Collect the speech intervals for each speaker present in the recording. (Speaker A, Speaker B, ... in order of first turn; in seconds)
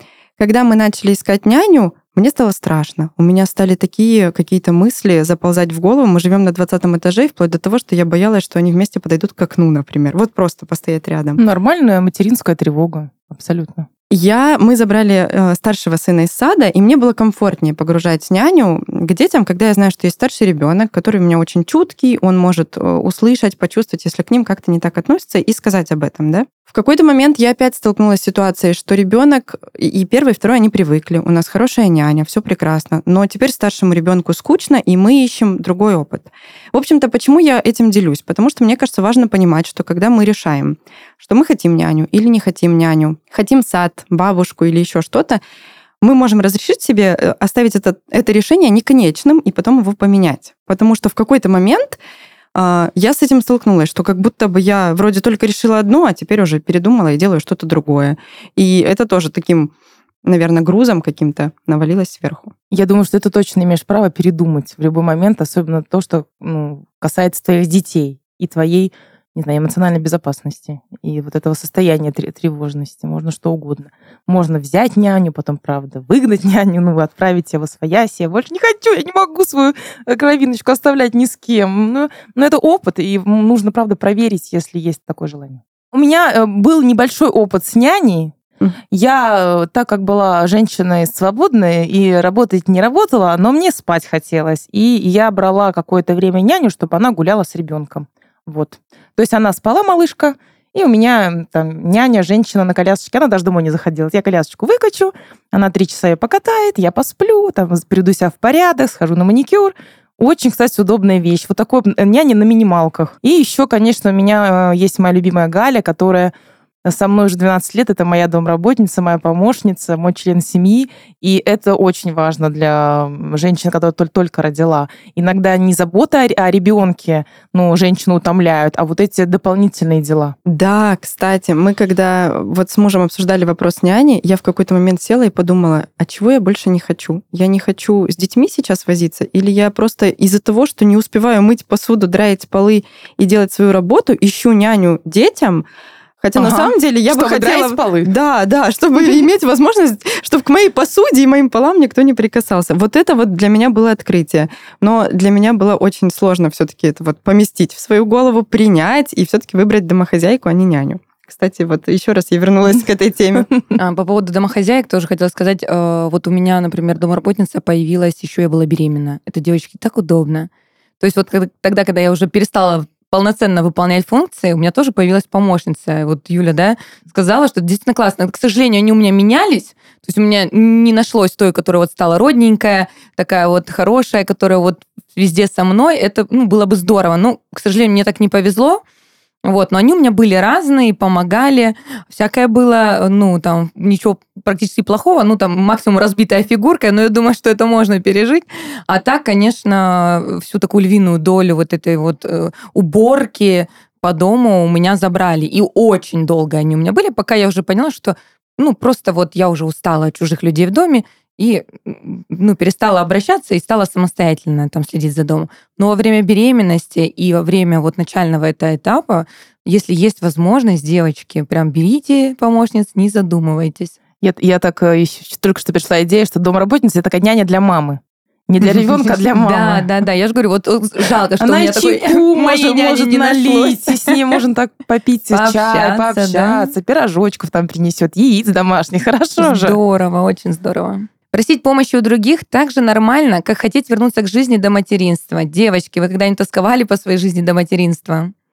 Speaker A: 0.4-11.4, 14.1-45.4, 46.0-52.0, 52.5-59.7, 60.2-62.5, 130.5-145.7, 146.2-163.5
Speaker B: 11.4-13.9, 62.7-88.3, 88.9-116.3, 116.8-130.3, 146.4-148.1, 224.2-229.9, 231.4-239.8
Speaker C: 163.8-170.5, 171.0-188.8, 189.4-224.0, 229.3-234.2, 235.3-236.8, 239.4-248.3